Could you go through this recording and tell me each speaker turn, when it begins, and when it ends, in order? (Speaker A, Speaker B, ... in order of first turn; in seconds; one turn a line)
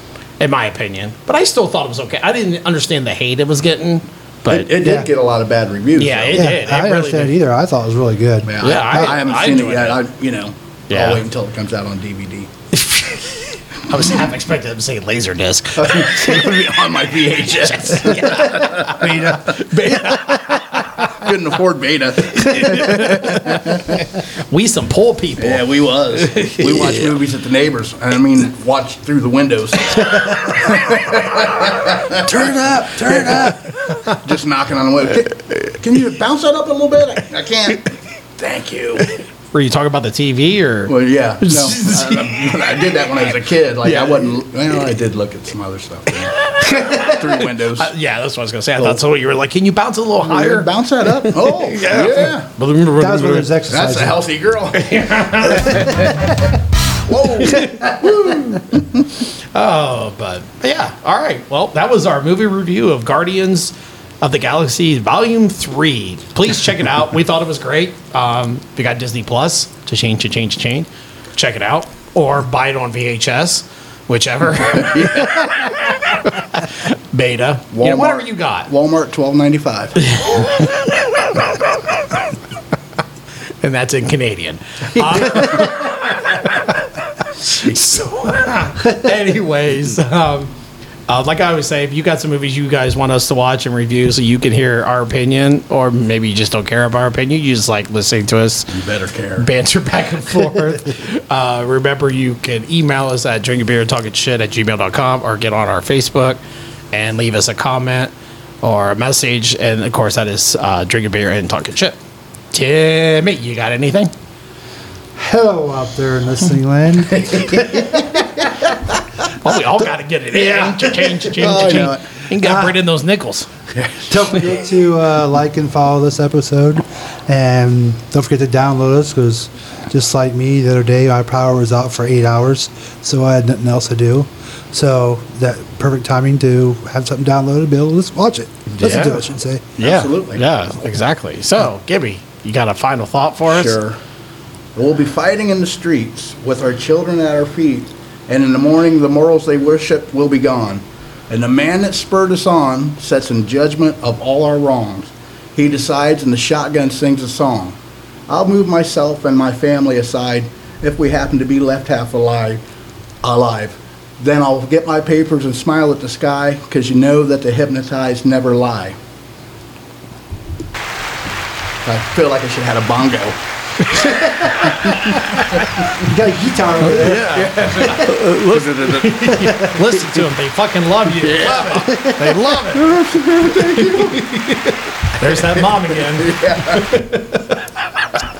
Speaker A: 0.4-4.7
Speaker B: 4.5-6.5
Speaker C: 4.8-5.1
Speaker A: 6.0-7.3
Speaker C: 6.3-9.1
Speaker B: 8.4-12.5
Speaker A: 8.6-10.0
Speaker A: 10.9-11.2
Speaker A: 12.7-16.6
Speaker B: 15.8-20.1
Speaker A: 17.5-21.2
Speaker C: 19.0-20.5
Speaker B: 20.9-24.0
Speaker A: 22.3-27.1
Speaker B: 25.4-39.1
Speaker A: 32.2-34.2
Speaker A: 39.0-44.4
Speaker B: 40.9-47.9
Speaker A: 46.2-53.5
Speaker B: 50.2-52.5
Speaker C: 53.0-54.2
Speaker B: 53.7-59.0
Speaker A: 54.7-56.2
Speaker A: 57.4-78.7
Speaker B: 74.6-75.5
Speaker B: 77.7-80.2
Speaker A: 80.0-80.9
Speaker A: 83.6-90.5
Speaker B: 85.2-85.7
Speaker B: 87.5-88.1
Speaker A: 91.1-98.8
Speaker B: 98.7-99.5
Speaker A: 99.4-106.4
Speaker A: 106.9-112.0
Speaker A: 112.5-114.1
Speaker C: 115.1-118.3
Speaker B: 117.1-118.7
Speaker A: 119.3-123.5
Speaker B: 120.4-122.0
Speaker C: 122.4-122.8
Speaker B: 123.7-124.5
Speaker C: 124.1-139.7
Speaker A: 138.8-139.2
Speaker B: 139.8-140.4
Speaker A: 139.8-143.8
Speaker B: 143.4-144.0
Speaker B: 144.8-157.8
Speaker B: 158.3-162.6
Speaker B: 163.2-168.9
Speaker B: 171.8-173.4
Speaker A: 173.8-175.7
Speaker B: 174.0-175.9
Speaker C: 174.2-174.6
Speaker C: 175.9-177.3
Speaker A: 176.8-182.9
Speaker B: 177.0-179.3
Speaker C: 177.8-178.2
Speaker C: 179.3-180.2
Speaker B: 181.1-181.9
Speaker C: 181.8-182.6
Speaker B: 182.7-184.5
Speaker A: 183.8-187.8
Speaker B: 185.3-187.0